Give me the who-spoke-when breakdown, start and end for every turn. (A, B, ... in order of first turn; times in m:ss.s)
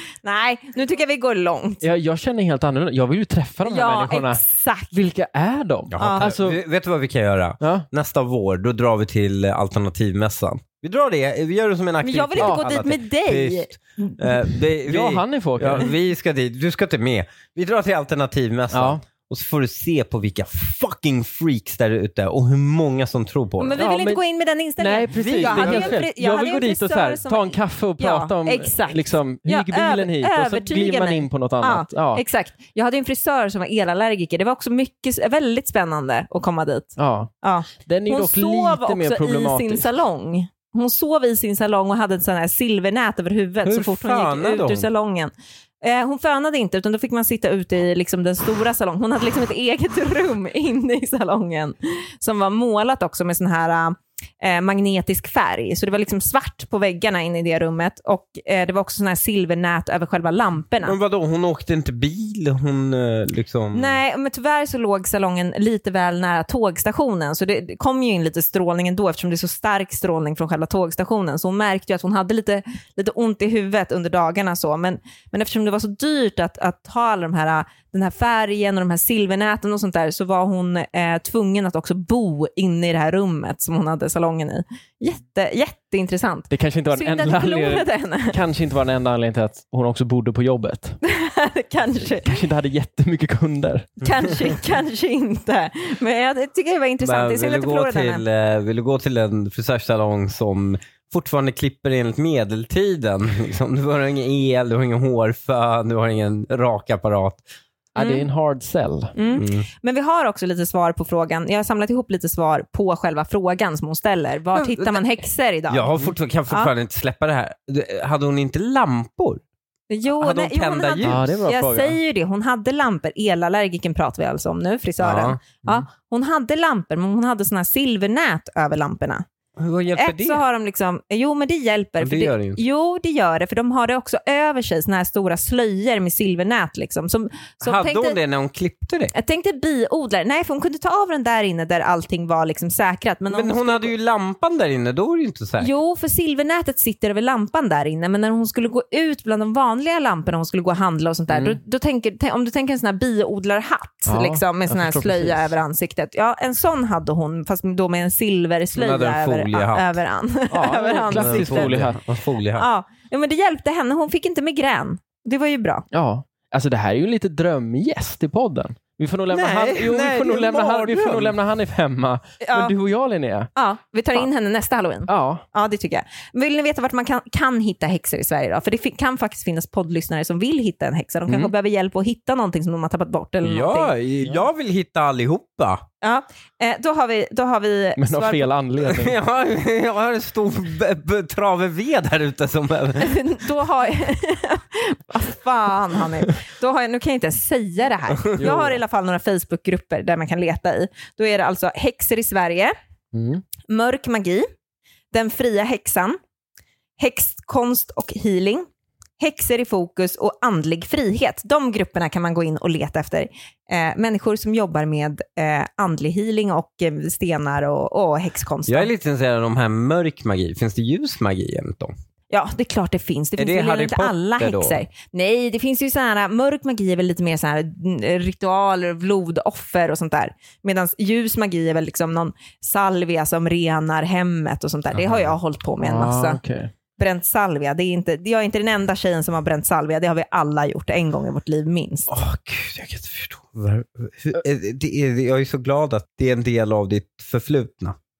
0:00.2-0:01.8 A
0:01.8-0:06.6 B
0:03.6-0:05.0 A
0:05.9-0:23.8 C
0:06.0-0:06.4 A
0:07.6-0:07.9 B
0:12.0-0:14.3 A
0:12.4-0:12.6 B
0:14.8-0:15.9 B
0:18.7-0:19.0 B
0:23.6-1:01.0 A
0:23.8-0:24.2 B
0:24.8-0:32.2 B
0:25.1-0:26.0 C
0:37.0-0:37.3 B
0:37.9-0:39.9 B
0:43.6-0:44.9 C
1:00.8-1:04.0 C
1:03.7-1:28.4 A
1:26.5-1:31.0 B
1:31.0-1:32.4 A
1:32.2-1:34.0 B
1:34.0-1:38.2 A
1:37.0-1:47.4 C
1:48.0-1:49.2 B
1:48.0-1:48.3 A
1:49.2-1:55.9 A
1:49.3-1:49.6 C
1:54.6-1:55.0 C
1:55.7-1:59.4 C
1:59.9-2:09.2 A
2:00.1-2:01.3 C
2:01.0-2:02.0 B
2:05.0-2:05.8 C
2:09.6-2:10.4 C
2:10.0-2:18.2 A
2:12.0-2:12.6 C
2:17.6-2:19.1 C
2:19.1-2:23.9 A
2:23.3-2:25.7 C
2:25.6-2:41.8 A
2:31.3-2:31.6 B
2:34.1-2:35.6 B
2:38.8-2:40.0 C
2:40.5-2:42.0 B
2:41.1-2:42.7 C
2:42.6-2:45.9 A
2:45.9-2:53.5 B
2:49.3-2:51.4 C
2:52.4-2:52.7 A
2:53.6-3:03.9 A
2:55.1-2:55.4 B
3:03.4-3:05.8 C
3:06.0-3:08.5 A
3:08.0-3:09.2 B
3:08.9-3:13.2 C
3:13.0-3:22.7 A
3:18.4-3:18.8 B
3:23.1-3:23.4 B
3:23.6-3:24.5 A
3:25.1-3:26.2 A
3:27.0-3:28.7 A
3:29.2-3:38.9 A
3:38.7-3:41.9 C
3:42.3-3:56.4 A
3:43.4-3:44.8 C
3:55.0-3:55.3 C
3:55.8-3:56.7 B
3:57.0-4:02.1 A
4:02.1-4:08.0 C